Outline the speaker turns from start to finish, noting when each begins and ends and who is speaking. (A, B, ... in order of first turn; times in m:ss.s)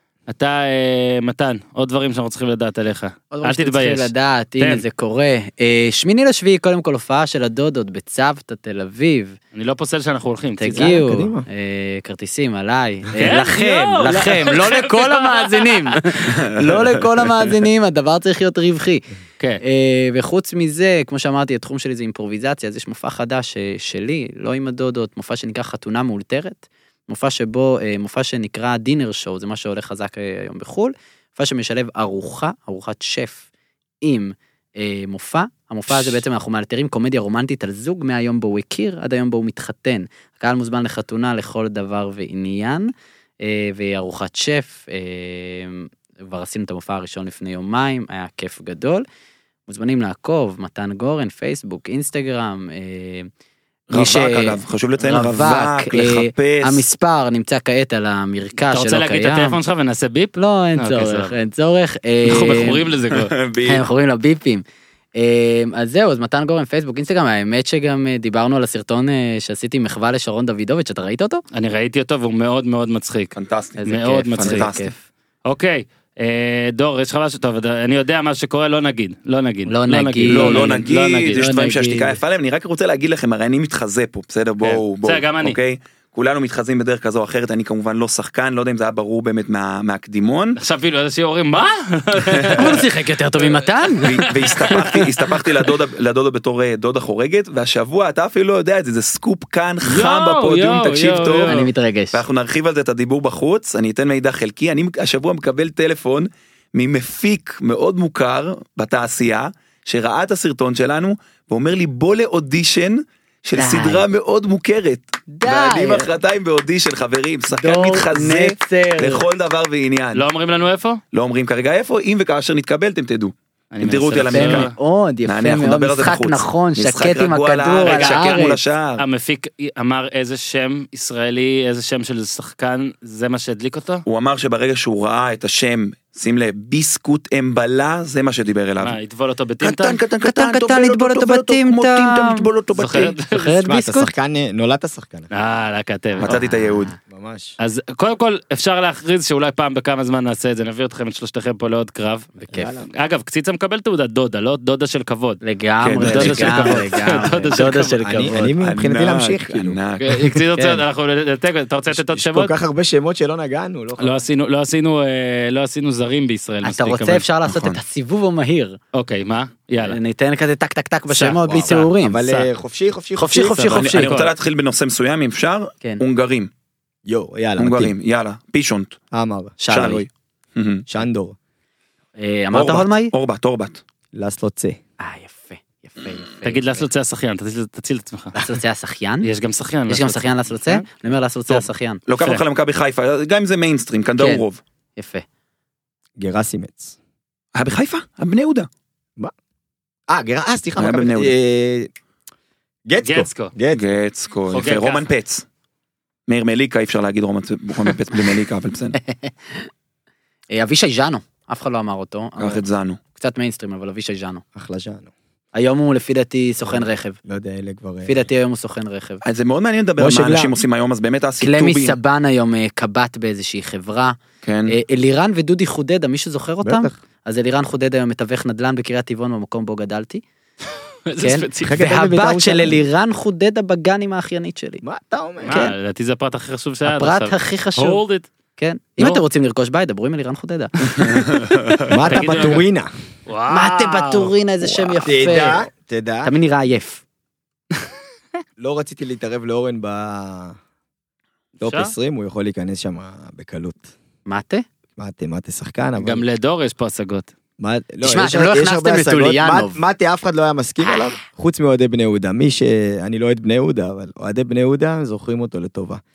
0:00.3-0:04.8 A
0:03.3-0:09.4 B
0:09.5-0:11.0 A
0:10.6-0:19.0 B
0:10.7-0:11.5 C
0:13.2-0:16.0 A
0:16.5-0:16.7 D
0:19.6-0:33.4 B
0:34.0-0:42.9 B
0:43.4-0:49.0 B
0:49.7-0:53.3 B
0:53.9-0:56.8 D
0:53.9-0:59.6 B
0:58.6-1:01.4 A
1:00.4-1:02.9 B
1:02.2-1:03.3 A
1:03.1-1:03.8 D
1:03.6-1:04.6 B
1:05.1-1:11.4 B
1:11.5-1:13.3 A
1:13.3-1:13.8 D
1:13.8-1:15.0 B
1:13.8-1:14.7 A
1:14.4-1:14.9 D
1:15.4-1:21.4 A
1:19.7-1:22.2 B
1:20.3-1:30.6 D
1:24.6-1:25.6 A
1:30.6-1:33.6 A
1:32.2-1:32.8 D
1:32.6-1:35.5 B
1:34.0-1:41.6 D
1:39.8-1:41.7 A
1:41.5-1:42.2 B
1:42.1-2:00.2 D
1:53.6-1:54.0 B
1:55.3-1:56.1 B
1:57.5-1:59.2 B
2:00.1-2:01.0 A
2:01.1-2:04.7 D
2:03.7-2:04.7 A
2:04.3-2:08.6 B
2:05.2-2:09.0 D
2:07.8-2:14.0 A
2:14.0-2:19.0 D
2:18.8-2:20.0 A
2:19.6-2:23.1 D
2:20.2-2:24.1 B
2:22.7-2:23.6 A
2:23.6-2:25.3 C
2:25.3-2:26.3 A
2:26.2-2:26.9 D
2:26.2-2:26.9 B
2:27.0-2:27.6 C
2:27.6-2:32.3 A
2:32.4-2:32.7 B
2:32.5-2:32.9 C
2:32.9-2:35.4 A
2:35.4-2:38.6 B
2:35.8-2:36.6 D
2:36.0-2:38.3 A
2:36.4-2:39.8 C
2:38.6-2:40.3 D
2:40.0-2:42.5 A
2:40.5-2:40.8 B
2:41.9-2:44.2 C
2:44.0-2:47.2 A
2:46.6-2:48.8 B
2:47.5-2:47.8 D
2:48.9-2:50.0 A
2:49.8-2:52.5 B
2:51.1-2:53.8 C
2:51.6-2:51.9 A
2:53.2-2:54.2 B
2:53.7-2:56.5 D
2:53.8-2:54.3 A
2:57.0-2:57.9 C
2:57.6-2:59.0 D
2:59.1-2:59.6 C
2:59.6-3:00.0 B
2:59.7-3:00.8 D
3:00.9-3:01.4 C
3:02.2-3:03.1 B
3:02.5-3:03.8 D
3:04.1-3:04.8 C
3:05.0-3:06.8 B
3:06.4-3:08.4 A
3:08.3-3:09.3 B
3:09.2-3:10.9 A
3:09.9-3:12.0 B
3:11.5-3:14.6 D
3:14.2-3:14.4 B
3:15.0-3:15.2 B
3:16.2-3:17.0 C
3:17.5-3:18.7 D
3:20.1-3:21.9 C
3:20.8-3:21.3 D
3:22.8-3:23.8 C
3:23.0-3:23.5 A
3:23.7-3:25.4 D
3:24.5-3:25.0 A
3:26.3-3:29.0 D
3:29.0-3:29.7 B
3:30.5-3:32.6 B
3:32.4-3:33.0 D
3:33.1-3:34.4 B
3:34.6-3:35.1 C
3:35.5-3:37.2 B
3:36.6-3:38.2 C
3:38.0-3:39.2 B
3:39.2-3:42.0 D
3:40.0-3:40.6 C
3:41.4-3:44.2 B
3:44.4-3:44.7 D
3:44.7-3:50.2 B
3:46.6-3:47.0 C
3:51.1-3:51.8 A
3:51.2-3:54.8 B
3:51.6-3:52.8 C
3:54.8-3:55.7 C
3:55.4-3:58.3 A
3:55.4-3:55.7 B
3:56.8-3:58.0 B
3:58.6-4:01.4 B
4:01.0-4:02.0 D
4:01.9-4:02.9 C
4:02.0-4:02.6 A
4:03.3-4:04.3 A
4:03.5-4:05.6 B
4:05.0-4:06.3 C
4:06.2-4:07.0 B
4:08.6-4:10.6 C
4:11.6-4:13.9 C
4:11.6-4:11.9 A
4:14.2-4:14.6 B
4:15.0-4:16.2 C
4:16.0-4:17.3 A
4:17.6-4:26.0 C
4:18.0-4:19.8 B
4:20.8-4:21.1 B